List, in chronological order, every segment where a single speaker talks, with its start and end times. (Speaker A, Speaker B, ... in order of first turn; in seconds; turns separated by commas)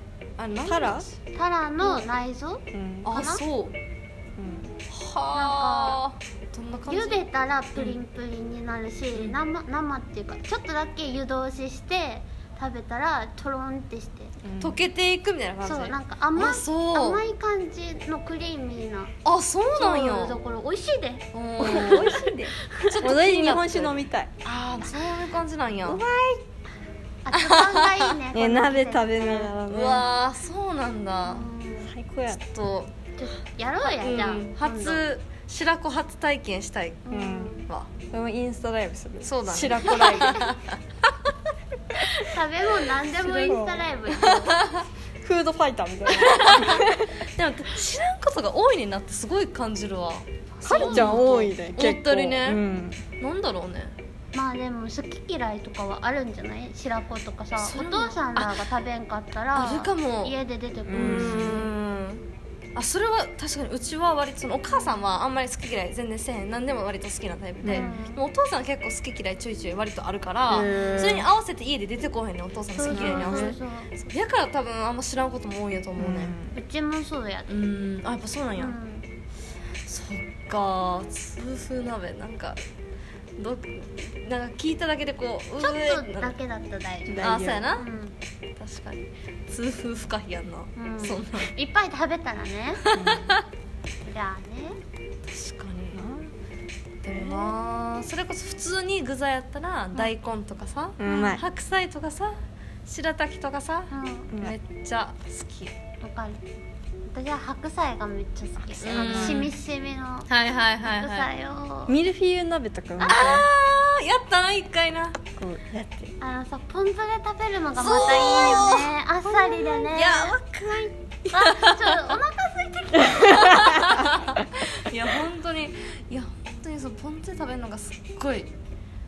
Speaker A: 0.4-1.2, Speaker B: 0.6-1.1, Speaker C: 1.3-3.4, Speaker A: 1.8-2.0, Speaker B: 2.7-3.2, Speaker A: 3.0-3.8, Speaker B: 4.4-4.7, Speaker A: 4.9-7.2, Speaker C: 5.3-6.0, Speaker C: 6.9-14.3, Speaker B: 14.4-14.8, Speaker A: 14.6-17.2, Speaker C: 15.6-19.1, Speaker A: 19.2-20.4, Speaker C: 19.7-23.1, Speaker A: 21.3-26.0, Speaker B: 21.6-24.3, Speaker B: 25.9-26.4, Speaker C: 27.2-29.6, Speaker A: 27.4-28.1, Speaker B: 28.3-30.1, Speaker A: 29.6-31.5, Speaker C: 31.2-31.9, Speaker B: 31.8-32.4, Speaker A: 32.3-32.9, Speaker C: 33.2-35.0, Speaker A: 33.8-37.1, Speaker C: 37.0-37.6, Speaker B: 37.1-37.6, Speaker A: 37.7-37.9, Speaker B: 38.1-40.5, Speaker A: 39.2-40.7, Speaker C: 42.0-44.6, Speaker A: 43.0-43.6, Speaker B: 43.4-43.9, Speaker A: 44.3-44.8, Speaker B: 45.2-47.1, Speaker A: 46.1-52.6, Speaker C: 50.6-51.5, Speaker B: 50.6-53.0, Speaker A: 53.2-54.0, Speaker C: 54.3-61.7, Speaker A: 57.6-58.7, Speaker A: 59.5-60.3, Speaker B: 60.9-61.6, Speaker A: 60.9-76.3, Speaker B: 67.6-67.9, Speaker C: 67.6-68.2, Speaker B: 70.5-71.3, Speaker C: 70.6-71.1, Speaker C: 72.7-73.9, Speaker B: 72.9-73.6, Speaker B: 76.0-76.6, Speaker C: 76.5-77.6, Speaker A: 77.5-78.8, Speaker C: 78.5-79.1, Speaker A: 79.8-82.6, Speaker A: 83.4-86.3, Speaker C: 85.6-88.1, Speaker B: 87.1-87.7, Speaker A: 87.2-87.8, Speaker A: 88.6-91.5, Speaker C: 90.8-92.8, Speaker A: 92.8-93.4, Speaker B: 92.9-93.3, Speaker C: 94.0-94.8, Speaker A: 95.3-96.0, Speaker B: 95.9-96.3, Speaker A: 97.0-105.7, Speaker B: 97.1-97.5, Speaker B: 101.0-101.4, Speaker C: 101.0-101.3, Speaker C: 103.9-104.3, Speaker C: 106.0-106.4, Speaker C: 107.0-110.3, Speaker B: 108.8-109.5, Speaker A: 108.8-109.5, Speaker A: 110.3-111.3, Speaker C: 110.8-111.9, Speaker B: 111.9-113.5, Speaker C: 113.0-113.3, Speaker A: 113.0-115.2, Speaker B: 115.4-116.1, Speaker C: 116.2-120.3, Speaker A: 117.7-122.2, Speaker C: 121.3-124.1, Speaker B: 123.1-123.7, Speaker A: 123.3-128.5